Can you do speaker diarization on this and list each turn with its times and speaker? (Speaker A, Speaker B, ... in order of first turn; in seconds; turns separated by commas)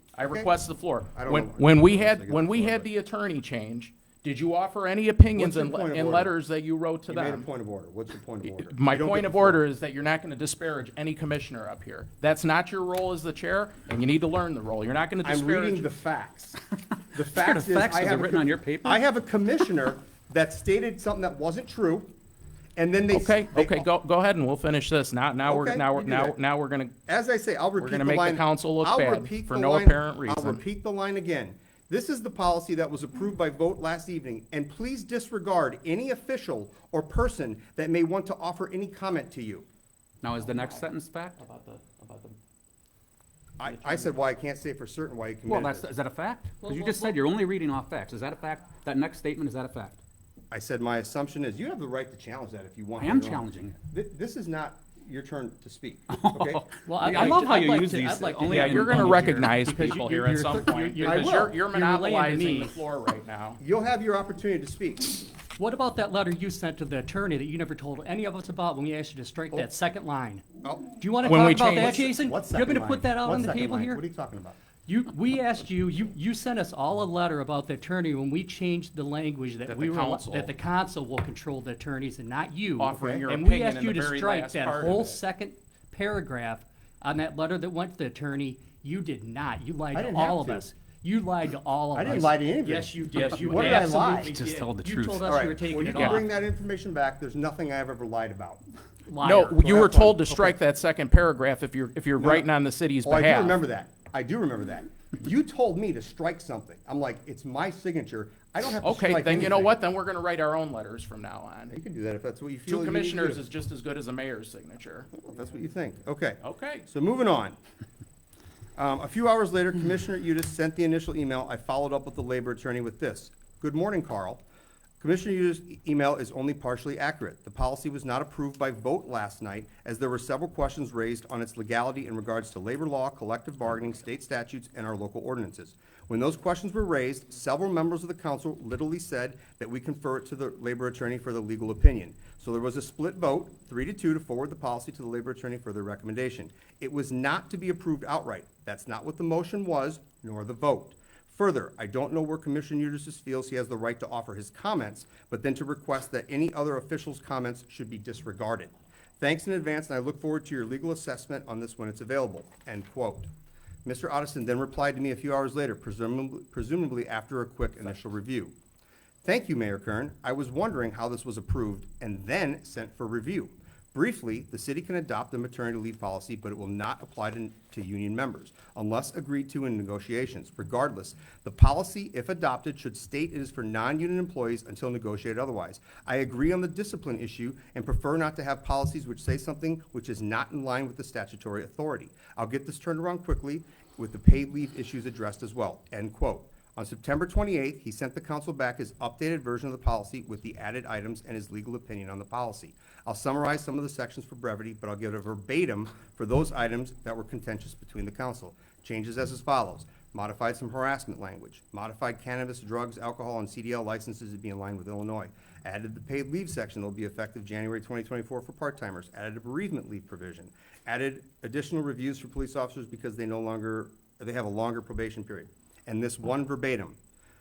Speaker A: 0.1-7.5, Speaker B: 0.2-0.5, Speaker B: 1.1-2.9, Speaker B: 5.4-6.3, Speaker B: 7.1-9.6, Speaker A: 8.4-15.9, Speaker B: 15.2-22.1, Speaker C: 17.3-19.0, Speaker B: 22.8-23.9, Speaker A: 23.1-26.9, Speaker B: 25.5-26.3, Speaker B: 27.1-39.7, Speaker A: 27.8-30.6, Speaker C: 40.2-41.4, Speaker A: 40.4-42.4, Speaker B: 43.6-45.9, Speaker A: 43.6-44.1, Speaker C: 45.5-50.0, Speaker D: 46.6-47.1, Speaker B: 50.5-57.4, Speaker C: 53.0-53.8, Speaker C: 56.1-59.5, Speaker D: 56.9-62.8, Speaker A: 58.5-63.6, Speaker B: 61.0-61.6, Speaker B: 63.6-65.3, Speaker D: 65.5-70.5, Speaker B: 70.6-70.9, Speaker D: 71.0-74.0, Speaker A: 71.2-72.1, Speaker B: 71.7-74.6, Speaker D: 74.9-96.3, Speaker A: 79.7-80.5, Speaker A: 82.8-85.2, Speaker B: 82.9-83.3, Speaker B: 89.9-90.7, Speaker B: 92.0-94.3, Speaker C: 94.1-95.4, Speaker B: 95.2-98.6, Speaker A: 95.9-96.2, Speaker D: 99.1-100.5, Speaker A: 99.2-103.6, Speaker B: 99.6-100.2, Speaker B: 102.2-102.5, Speaker B: 103.0-109.7, Speaker A: 108.8-111.8, Speaker B: 111.7-113.5, Speaker A: 112.7-115.1, Speaker B: 115.1-117.6, Speaker A: 116.4-116.9, Speaker B: 118.8-124.4, Speaker B: 125.0-163.3, Speaker B: 163.8-168.5, Speaker B: 169.2-227.0